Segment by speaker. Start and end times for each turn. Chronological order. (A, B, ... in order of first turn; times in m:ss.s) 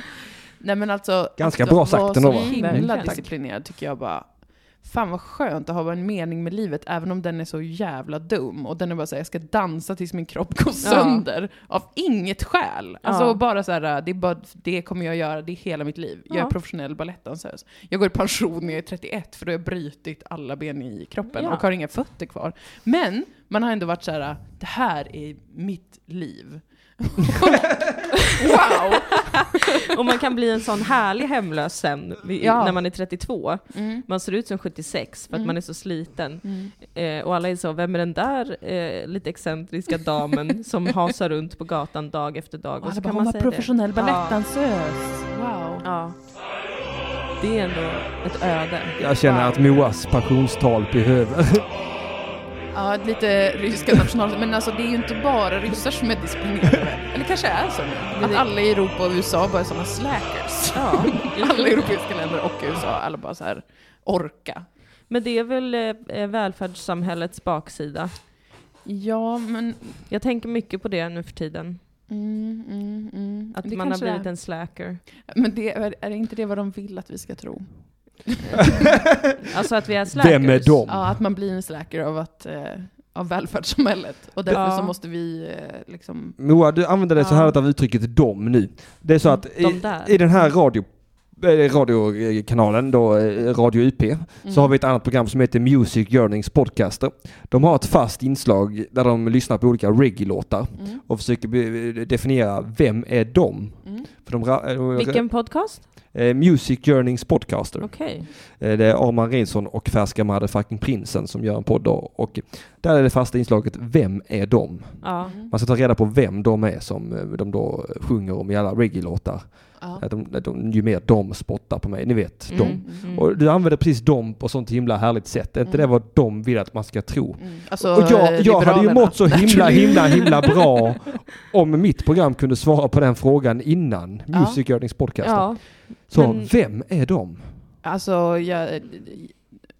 0:00.6-0:29.6 A
0:01.4-0:03.1 B
0:02.3-0:03.2 C
0:10.8-0:11.2 C
0:13.0-0:13.4 C
0:21.3-0:21.6 C
0:28.3-0:44.4 C
0:32.4-0:32.8 A
0:33.7-0:34.0 A
0:35.3-0:35.6 A
0:36.4-0:36.7 A
0:42.8-0:45.9 A
0:45.8-0:46.2 C
0:47.4-0:49.4 C
0:49.0-0:51.7 B
0:49.3-0:49.6 A
0:52.7-1:04.6 A
0:58.1-0:58.4 C
1:00.7-1:01.9 C
1:05.1-1:08.1 C
1:08.8-1:10.0 A
1:10.1-1:11.8 C
1:12.1-1:14.3 A
1:13.6-1:15.0 C
1:15.3-1:18.8 A
1:18.5-1:20.8 C
1:18.8-1:19.4 B
1:20.1-1:21.2 B
1:20.9-1:26.4 A
1:24.5-1:24.9 C
1:26.4-2:17.5 B
1:27.2-1:27.6 C
1:29.2-1:30.4 C
1:34.4-1:34.8 A
1:40.8-1:41.0 A
1:43.8-1:44.1 A
1:44.9-1:45.9 C
1:47.8-1:48.3 C
1:55.0-1:55.4 C
1:55.2-1:55.5 A
1:59.8-2:00.0 A
2:02.5-2:03.3 C
2:02.6-2:03.1 A
2:07.4-2:10.6 A
2:14.3-2:14.6 A
2:15.2-2:16.5 C
2:17.8-2:19.4 A